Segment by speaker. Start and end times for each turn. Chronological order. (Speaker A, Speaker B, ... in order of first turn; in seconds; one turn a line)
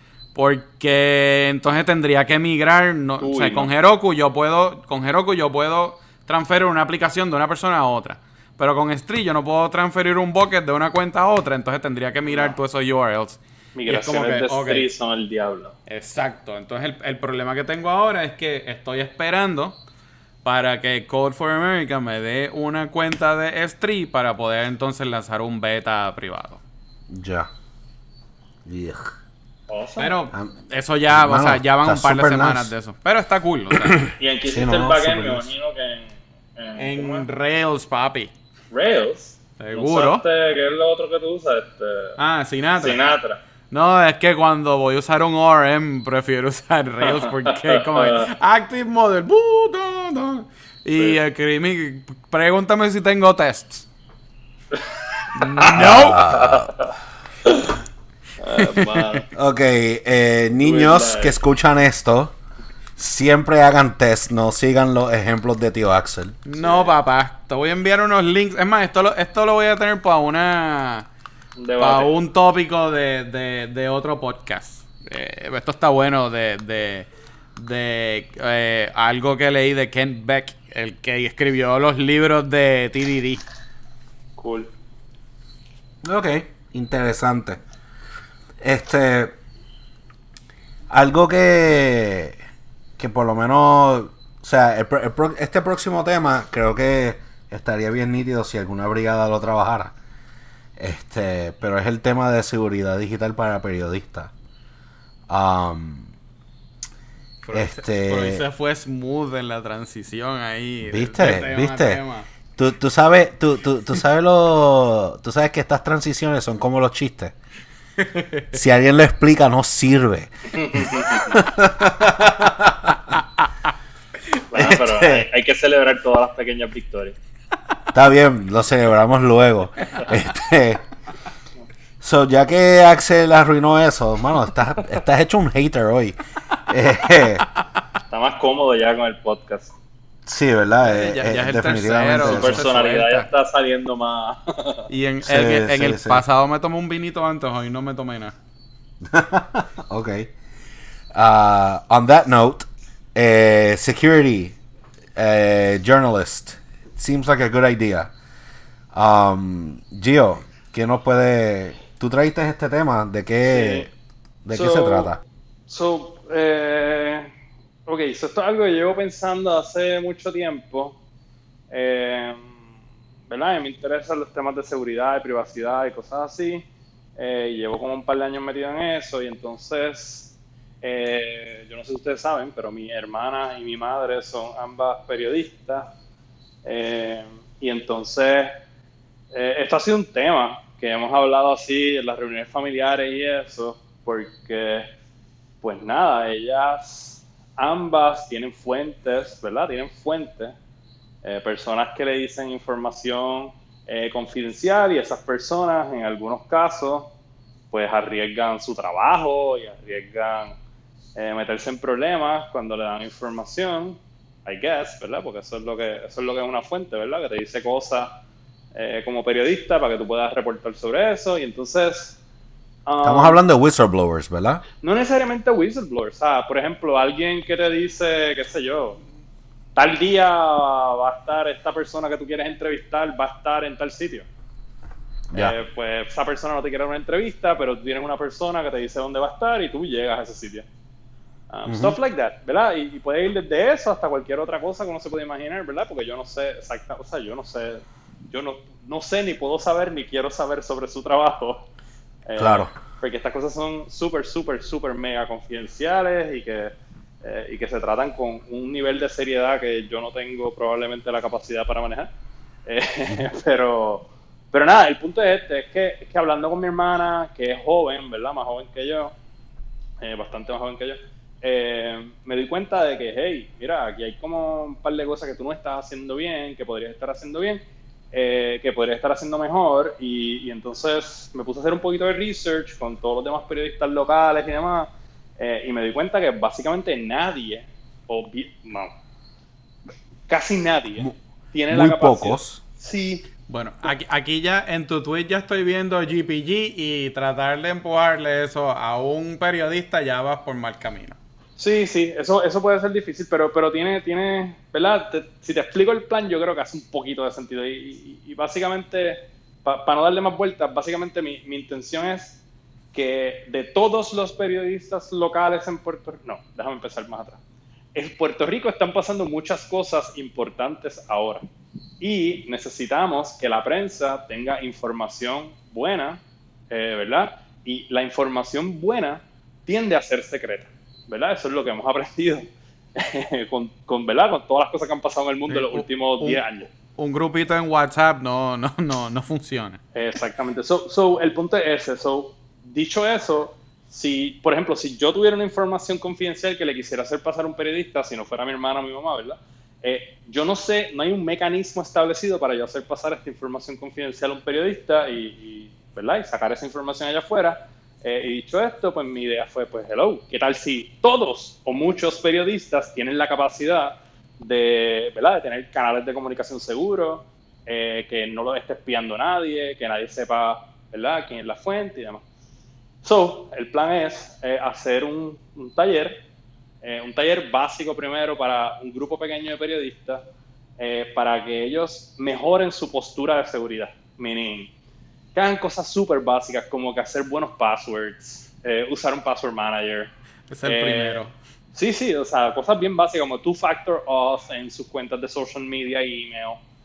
Speaker A: 0.3-14.9
Speaker B: 3.2-3.7
Speaker B: 12.3-12.6
Speaker B: 13.8-15.8
Speaker A: 15.9-19.8
Speaker A: 20.4-26.6
Speaker C: 27.1-27.5
Speaker C: 28.6-29.2
Speaker B: 29.7-30.2
Speaker A: 30.0-34.0
Speaker C: 31.1-32.7
Speaker C: 33.7-35.5
Speaker B: 34.2-37.2
Speaker A: 36.8-38.3
Speaker B: 38.7-42.2
Speaker A: 39.6-40.2
Speaker A: 42.2-43.0
Speaker B: 42.8-43.4
Speaker A: 43.7-53.9
Speaker B: 47.0-48.3
Speaker B: 54.7-56.9
Speaker A: 55.4-56.3
Speaker C: 55.7-56.7
Speaker B: 57.5-57.7
Speaker B: 58.4-59.3
Speaker A: 58.5-59.0
Speaker C: 59.3-62.3
Speaker B: 60.6-61.4
Speaker C: 63.0-66.4
Speaker A: 66.5-71.1
Speaker B: 66.6-67.0
Speaker B: 71.6-72.1
Speaker A: 71.8-83.4
Speaker B: 84.4-84.7
Speaker C: 86.0-87.6
Speaker C: 88.6-89.4
Speaker C: 90.9-92.4
Speaker C: 93.0-99.9
Speaker C: 100.8-104.3
Speaker C: 105.3-106.1
Speaker A: 107.4-112.3
Speaker C: 107.5-108.4
Speaker C: 110.9-112.0
Speaker C: 112.6-117.3
Speaker A: 118.0-118.5
Speaker C: 118.5-123.0
Speaker B: 120.6-121.4
Speaker B: 124.5-127.2
Speaker C: 124.5-125.3
Speaker C: 127.9-130.8
Speaker C: 132.0-137.4
Speaker B: 138.1-139.8
Speaker C: 140.3-142.7
Speaker A: 140.8-143.3
Speaker B: 142.2-144.9
Speaker A: 144.9-148.3
Speaker C: 145.2-146.2
Speaker C: 149.1-150.3
Speaker C: 151.1-154.6
Speaker C: 155.2-158.1
Speaker C: 158.9-163.9
Speaker B: 163.5-163.9
Speaker C: 164.4-165.2
Speaker B: 164.5-165.1
Speaker B: 165.7-167.3
Speaker B: 167.9-171.0
Speaker B: 171.7-172.6
Speaker B: 173.3-185.9
Speaker B: 186.7-188.6
Speaker B: 189.3-194.9
Speaker B: 195.6-200.6
Speaker B: 201.2-207.1
Speaker B: 207.7-210.6
Speaker B: 211.2-218.2
Speaker B: 218.8-222.2
Speaker B: 222.9-223.4
Speaker C: 223.0-224.6
Speaker B: 224.8-229.0
Speaker B: 229.8-234.3
Speaker B: 235.3-240.7
Speaker B: 241.5-251.7
Speaker C: 241.7-242.0
Speaker B: 252.3-256.7
Speaker C: 252.4-252.7
Speaker B: 257.2-262.1
Speaker B: 262.7-269.1
Speaker B: 270.0-288.9
Speaker B: 290.3-293.3
Speaker C: 291.7-292.6
Speaker A: 293.5-301.2
Speaker B: 301.6-312.4
Speaker B: 312.9-317.4
Speaker B: 317.9-321.5
Speaker B: 322.0-336.7
Speaker A: 335.5-339.8
Speaker B: 339.9-372.2
Speaker B: 373.0-376.2
Speaker B: 376.8-380.2
Speaker B: 380.8-384.7
Speaker B: 385.4-390.1
Speaker A: 390.5-391.4
Speaker B: 390.6-396.6